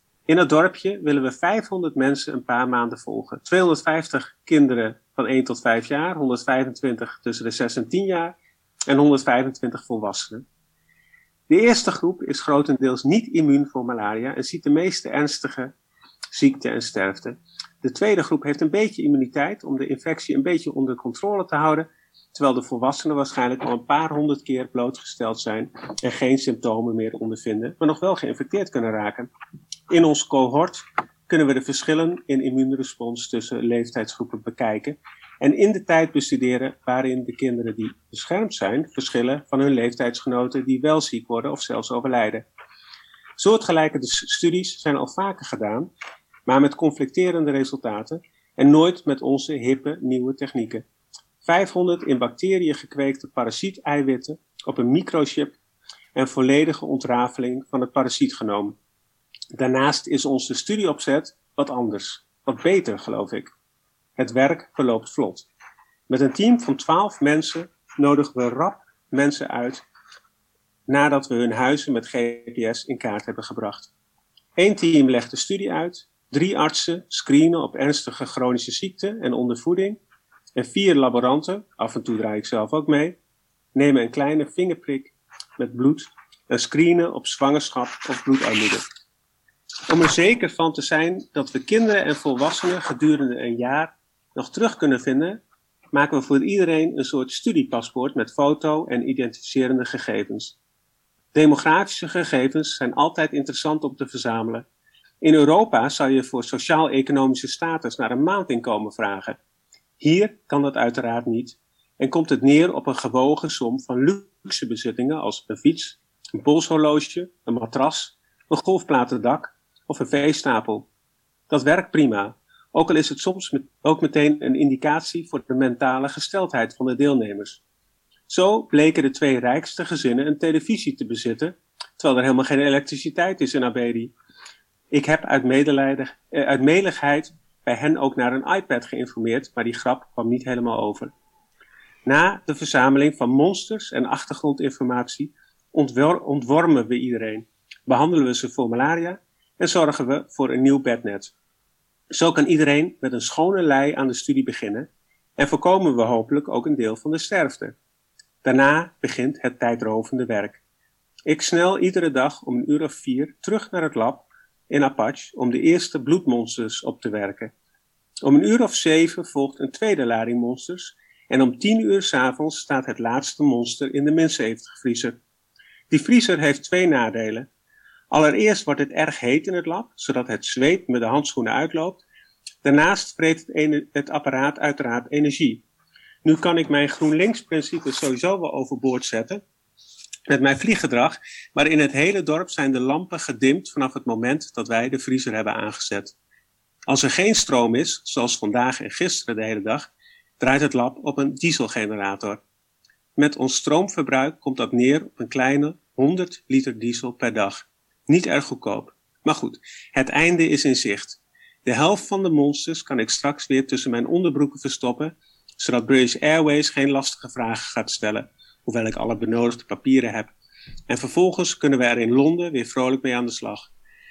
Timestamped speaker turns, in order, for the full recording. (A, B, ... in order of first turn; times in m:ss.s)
0:00.3-0:08.4 A
0:08.9-0:10.4 A
0:11.5-0:15.7 A
0:16.3-0:29.3 A
0:29.9-0:42.5 A
0:43.4-0:45.9 A
0:46.5-0:50.8 A
0:51.4-0:55.6 A
0:56.2-0:58.8 A
0:59.6-1:03.5 A
1:04.2-1:05.5 A
1:06.1-1:09.8 A
1:10.9-1:13.9 A
1:14.6-1:20.0 A
1:20.6-1:23.2 A
1:23.8-1:28.8 A
1:29.9-1:35.4 A
1:35.9-1:40.6 A
1:41.3-1:44.7 A
1:45.2-1:49.4 A
1:50.0-2:00.9 A
2:01.5-2:07.6 A
2:08.3-2:14.1 A
2:14.9-2:21.1 A
2:22.1-2:31.3 A
2:32.1-2:37.8 A
2:38.4-2:40.6 A
2:41.3-2:47.5 A
2:48.2-2:55.2 A
2:55.9-2:57.5 A
2:58.1-3:02.0 A
3:02.6-3:05.6 A
3:06.2-3:09.4 A
3:10.3-3:16.1 A
3:16.9-3:22.4 A
3:23.2-3:40.3 A
3:40.9-3:43.7 A